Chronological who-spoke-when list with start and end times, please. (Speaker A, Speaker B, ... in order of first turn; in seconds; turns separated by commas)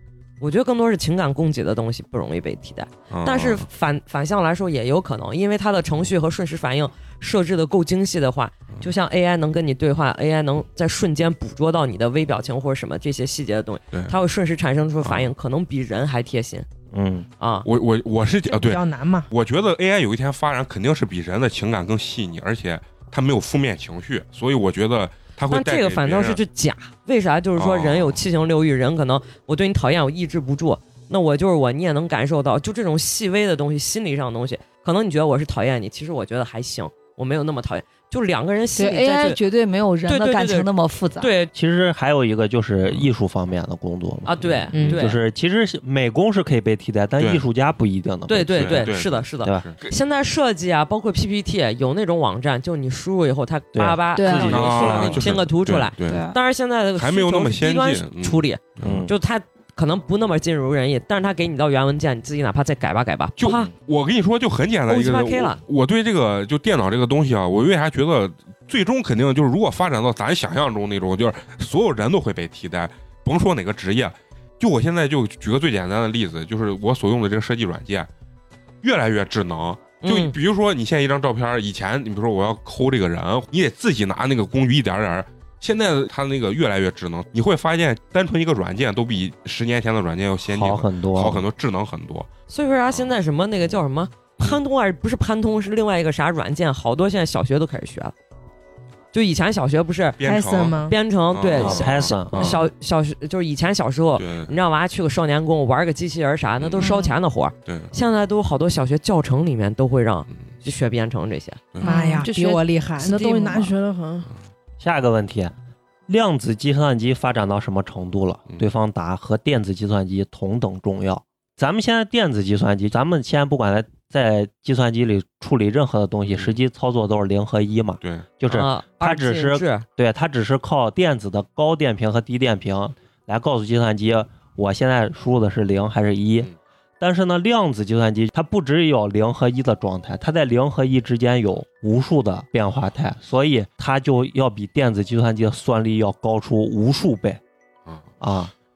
Speaker A: 0.4-16.7, Speaker B: 3.1-3.6, Speaker B: 15.0-15.3, Speaker C: 16.9-17.3, Speaker A: 17.4-17.7, Speaker B: 17.6-26.4, Speaker D: 18.5-19.3, Speaker A: 25.5-39.4, Speaker B: 27.6-28.2, Speaker E: 38.8-41.3, Speaker A: 40.1-41.5, Speaker C: 41.5-48.9, Speaker A: 44.3-45.2, Speaker D: 44.7-45.1, Speaker B: 47.2-47.4, Speaker A: 48.3-63.7, Speaker B: 48.5-49.9, Speaker C: 49.4-49.7, Speaker C: 53.7-55.4, Speaker E: 54.2-54.6, Speaker B: 54.5-56.2, Speaker E: 56.0-56.4, Speaker B: 57.0-59.0, Speaker C: 58.8-59.1, Speaker B: 63.4-78.1, Speaker A: 64.9-65.6, Speaker B: 78.8-92.3, Speaker A: 80.0-80.4, Speaker C: 90.5-91.5, Speaker A: 92.5-98.1, Speaker A: 99.1-100.2, Speaker B: 100.2-100.8, Speaker D: 100.2-101.0, Speaker A: 100.8-111.7, Speaker B: 101.3-102.6, Speaker C: 101.5-102.6, Speaker B: 104.2-104.5, Speaker B: 106.6-107.0, Speaker E: 106.8-107.2, Speaker B: 107.7-107.9, Speaker D: 111.8-114.3, Speaker E: 111.8-113.8, Speaker C: 114.8-115.5, Speaker C: 116.1-147.4, Speaker B: 126.3-126.5, Speaker B: 128.0-128.3, Speaker A: 128.5-129.9, Speaker C: 148.2-148.5